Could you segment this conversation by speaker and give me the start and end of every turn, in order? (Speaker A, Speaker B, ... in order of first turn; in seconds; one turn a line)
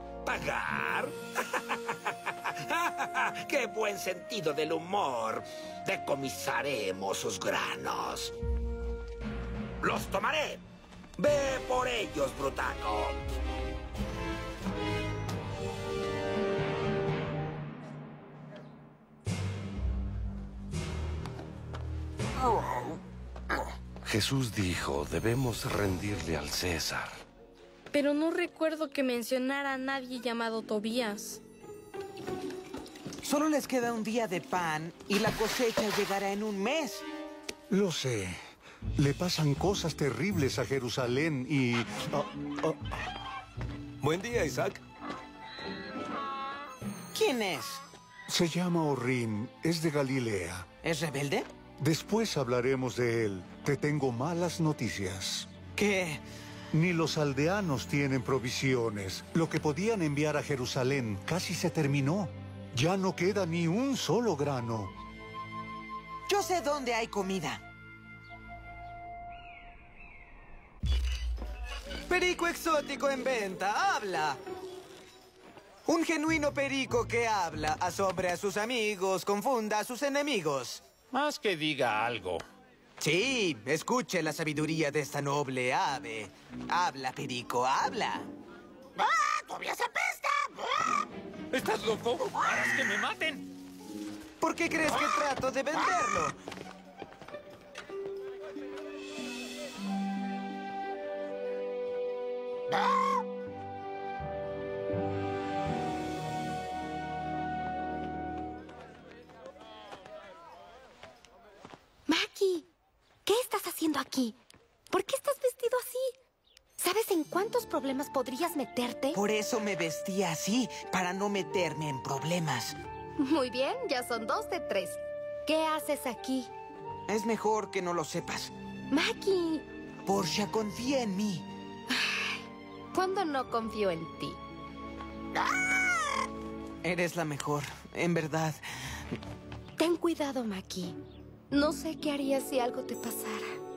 Speaker A: 0.2-8.3
Speaker A: 9.8-10.6
Speaker A: 11.2-13.2
Speaker B: 24.0-27.1
Speaker C: 27.9-31.4
Speaker D: 33.2-37.0
Speaker E: 37.7-38.4
Speaker E: 39.0-42.7
Speaker E: 44.0-44.7
Speaker D: 47.1-47.8
Speaker E: 48.3-50.6
Speaker D: 50.8-51.5
Speaker E: 51.8-55.5
Speaker D: 55.8-56.2
Speaker E: 56.7-64.9
Speaker D: 66.3-67.6
Speaker D: 72.1-74.4
Speaker D: 75.9-80.8
Speaker F: 81.1-82.4
Speaker D: 83.0-88.3
Speaker F: 91.5-93.4
Speaker D: 94.4-96.4
Speaker G: 112.1-112.7
Speaker G: 113.2-114.3
Speaker G: 114.9-116.1
Speaker G: 116.8-119.2
Speaker D: 119.1-122.8
Speaker G: 123.2-126.5
Speaker D: 127.1-128.5
Speaker G: 128.9-129.7
Speaker D: 130.1-131.5
Speaker G: 131.9-132.4
Speaker G: 132.9-134.4
Speaker D: 136.8-138.6
Speaker G: 139.8-140.9
Speaker G: 141.5-143.5